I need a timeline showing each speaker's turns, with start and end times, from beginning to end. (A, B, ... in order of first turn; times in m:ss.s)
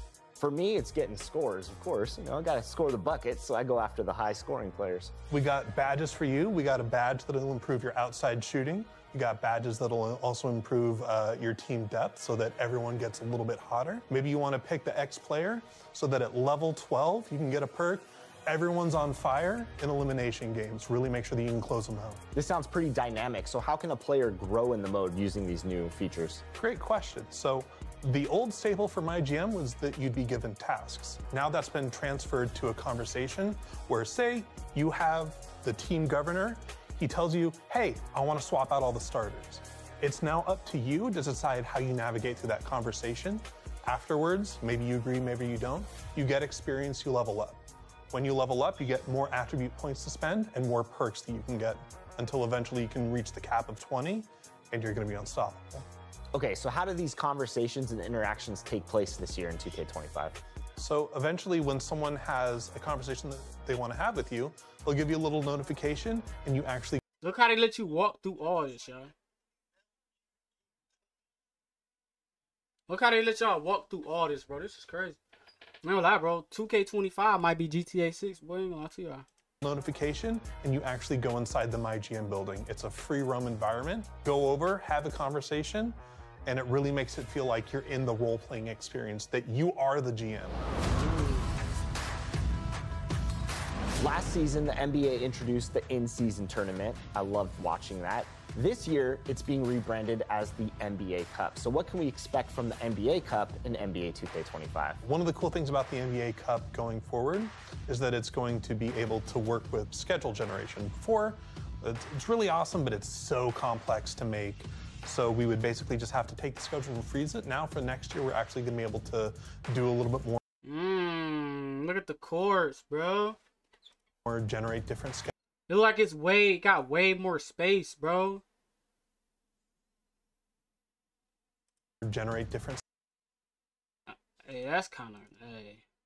0:00.4-0:05.1 A
0:05.3-0:22.2 B
0:22.3-0:26.4 A
0:26.6-0:47.6 B
0:48.1-0:55.9 B
0:56.3-1:00.4 A
1:00.8-1:07.0 B
1:07.2-1:09.1 C
1:12.9-1:15.2 C
1:15.8-1:19.2 C
1:19.6-1:30.6 B
1:31.0-1:31.5 A
1:34.0-1:45.0 A
1:45.0-2:00.4 B
2:00.6-2:03.4 C
2:04.2-2:05.3 B
2:05.7-2:08.4 C
2:12.0-2:12.8 B
2:14.1-2:15.8 C